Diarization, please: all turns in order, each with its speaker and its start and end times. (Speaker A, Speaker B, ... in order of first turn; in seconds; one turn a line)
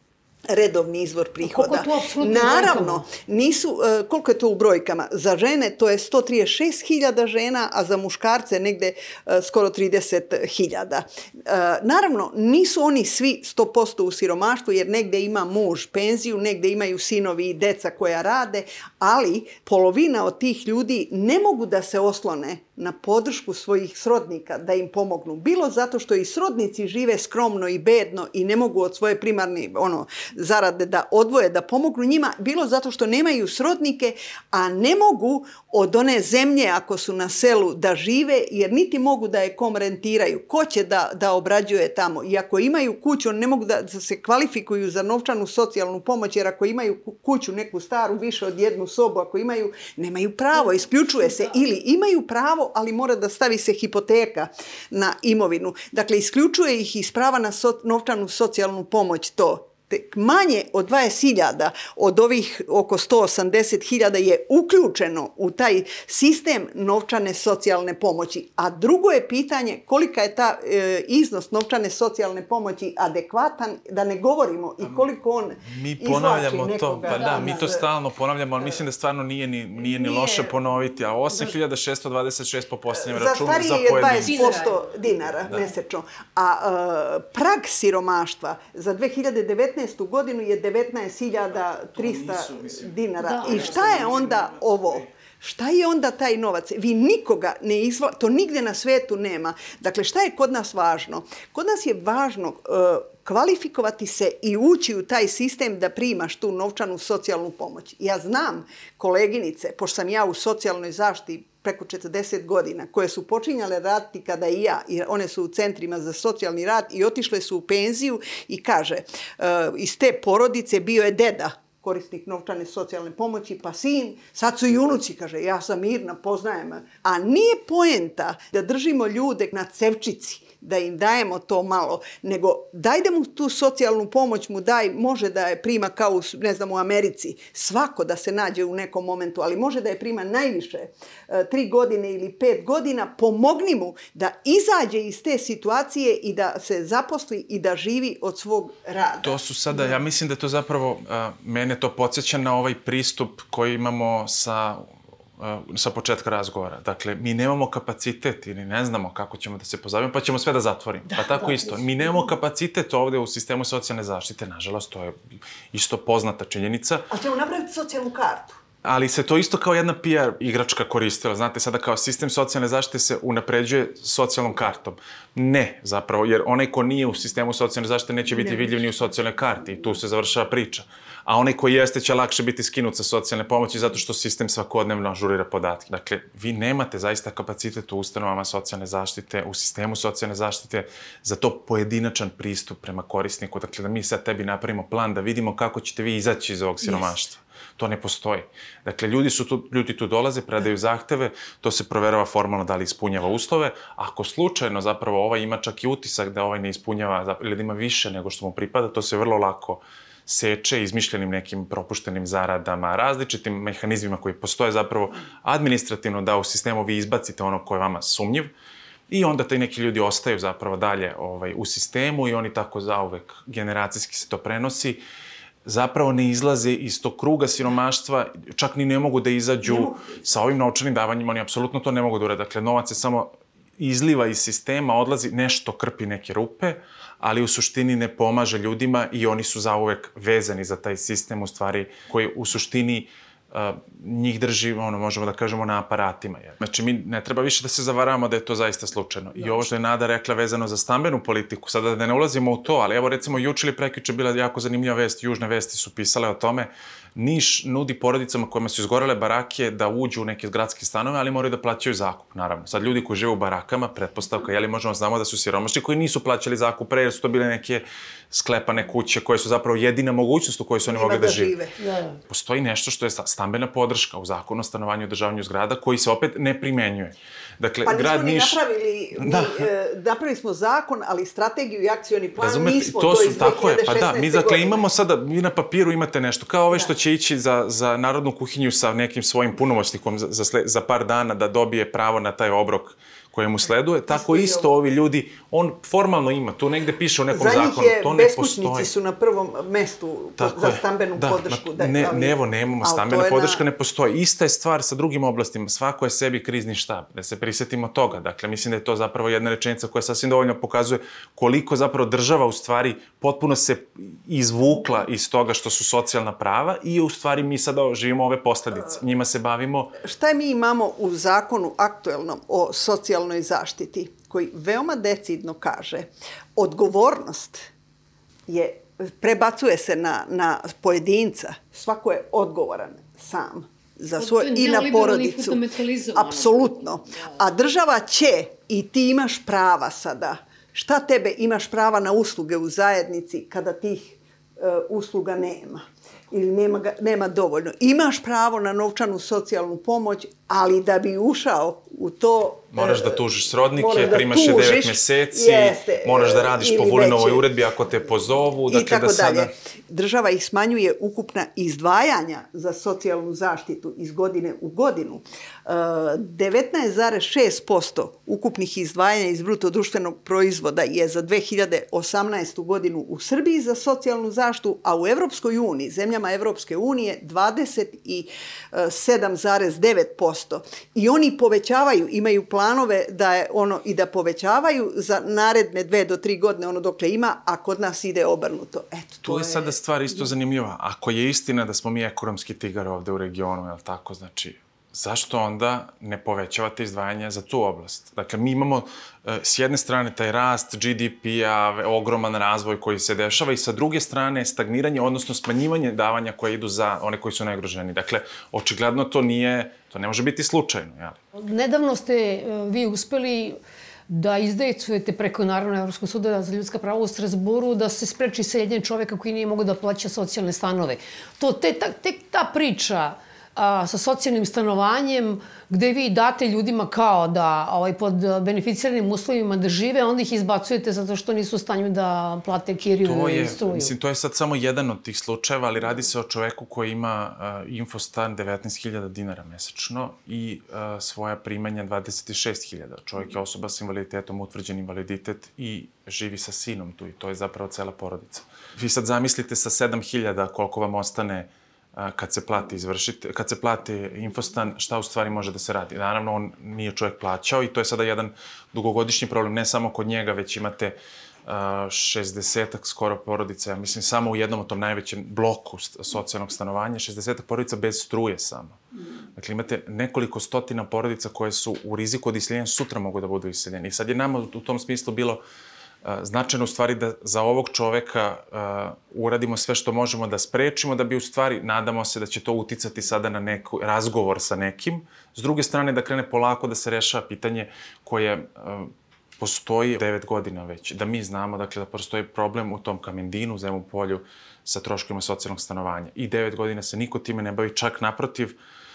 Speaker A: 0.5-77.8
Speaker B: 1.4-3.0
Speaker C: 74.8-75.1
Speaker C: 75.7-84.5
Speaker B: 77.1-77.7
Speaker B: 80.0-80.5
Speaker A: 82.9-149.9
Speaker B: 84.2-84.8
Speaker C: 92.0-92.7
Speaker B: 93.2-93.7
Speaker C: 93.4-94.5
Speaker C: 149.2-154.9
Speaker C: 155.4-165.2
Speaker A: 161.1-162.3
Speaker C: 165.7-167.1
Speaker A: 167.1-168.6
Speaker C: 168.8-218.5
Speaker C: 219.1-225.0
Speaker C: 225.7-271.6
Speaker A: 229.6-230.2
Speaker A: 270.8-271.8
Speaker B: 271.8-272.2
Speaker C: 272.3-278.6
Speaker A: 277.8-284.9
Speaker C: 279.1-279.7
Speaker C: 282.4-298.9
Speaker A: 294.1-294.7
Speaker A: 297.3-303.6
Speaker C: 300.4-320.0
Speaker A: 320.0-327.7
Speaker A: 328.5-353.2
Speaker B: 334.2-336.7
Speaker C: 352.7-359.5
Speaker A: 353.7-357.5
Speaker A: 358.7-389.8
Speaker C: 389.2-411.2
Speaker B: 411.3-413.6
Speaker B: 414.1-433.9
Speaker C: 433.0-468.8
Speaker C: 469.4-475.4
Speaker C: 476.0-498.5